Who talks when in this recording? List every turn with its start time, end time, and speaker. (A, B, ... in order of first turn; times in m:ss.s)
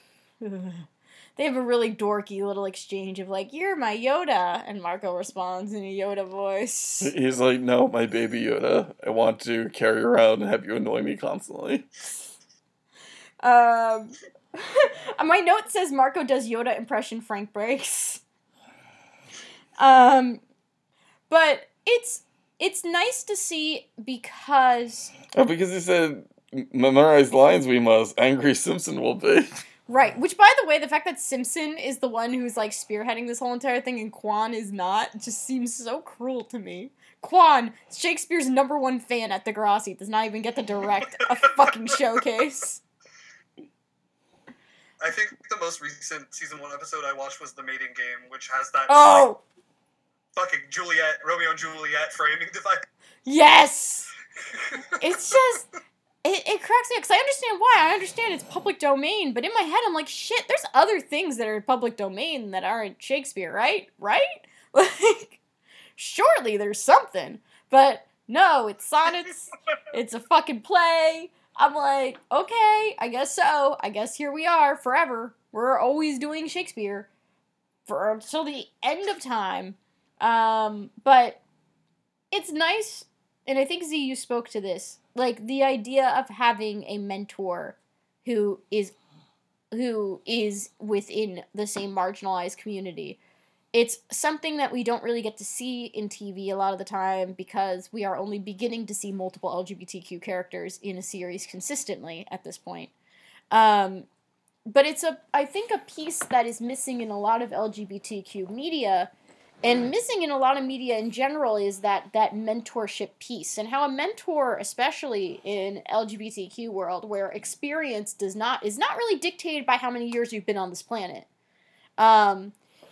0:00.4-0:07.1 A
0:07.0-0:11.9 B
0:13.4-0:18.2 A
0:19.8-0:20.4 A
0:21.3-0:25.1 A
0:25.3-0:29.5 B
0:29.9-0:42.8 A
0:45.0-0:49.3 C
0:48.9-0:49.4 A
0:50.4-0:52.8 C
0:53.3-0:54.1 A
0:54.5-0:55.4 C
0:55.0-0:55.7 A
0:56.2-1:05.4 A
1:06.0-1:17.1 A
1:17.9-1:21.4 A
1:22.3-1:28.9 A
1:29.7-1:33.2 A
1:33.7-1:42.9 A
1:43.5-1:44.1 A
1:44.7-1:49.1 A
1:49.6-2:01.3 A
2:02.0-2:02.5 A